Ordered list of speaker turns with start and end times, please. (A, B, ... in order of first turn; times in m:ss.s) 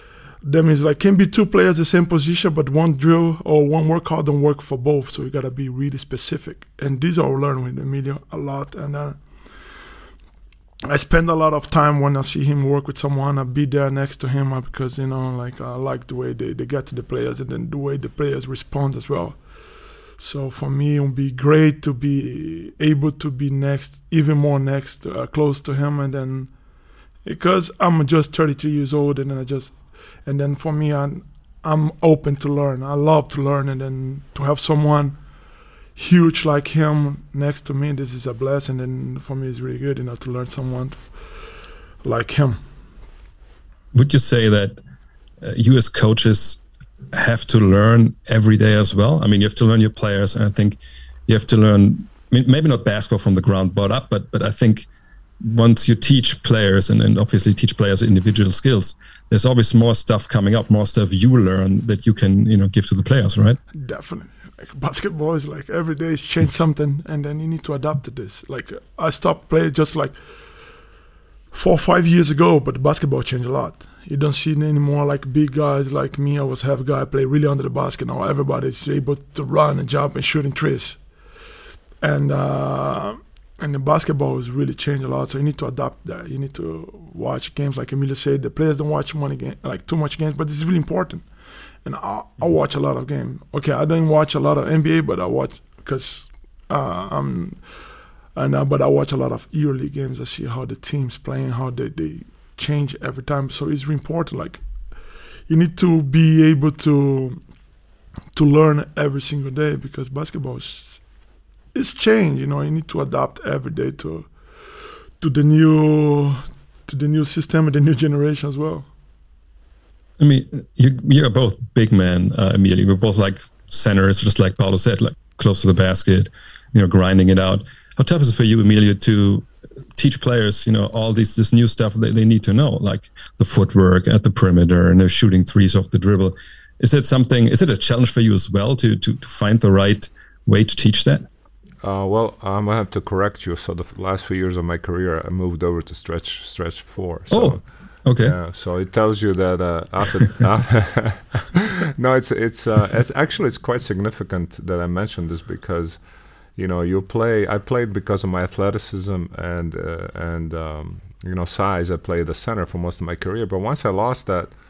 0:00.4-0:09.2 A
0:10.9-0:19.4 A
0:20.2-0:26.5 A
0:27.2-0:35.2 A
0:36.0-0:41.5 A
0:42.0-0:42.6 A
0:43.9-0:44.8 B
0:45.4-0:46.6 B
0:47.1-0:54.9 B
0:55.4-1:03.6 B
1:03.7-1:10.2 A
1:11.5-1:21.0 A
1:22.0-1:31.3 A
1:31.8-1:37.8 A
1:38.3-1:44.6 A
1:45.5-1:47.4 A
1:48.3-1:51.0 A
1:51.7-1:54.3 A
1:55.2-1:58.9 A
2:00.2-2:21.3 B
2:21.8-2:36.0 C
2:27.3-2:28.4 B
2:36.6-2:44.5 C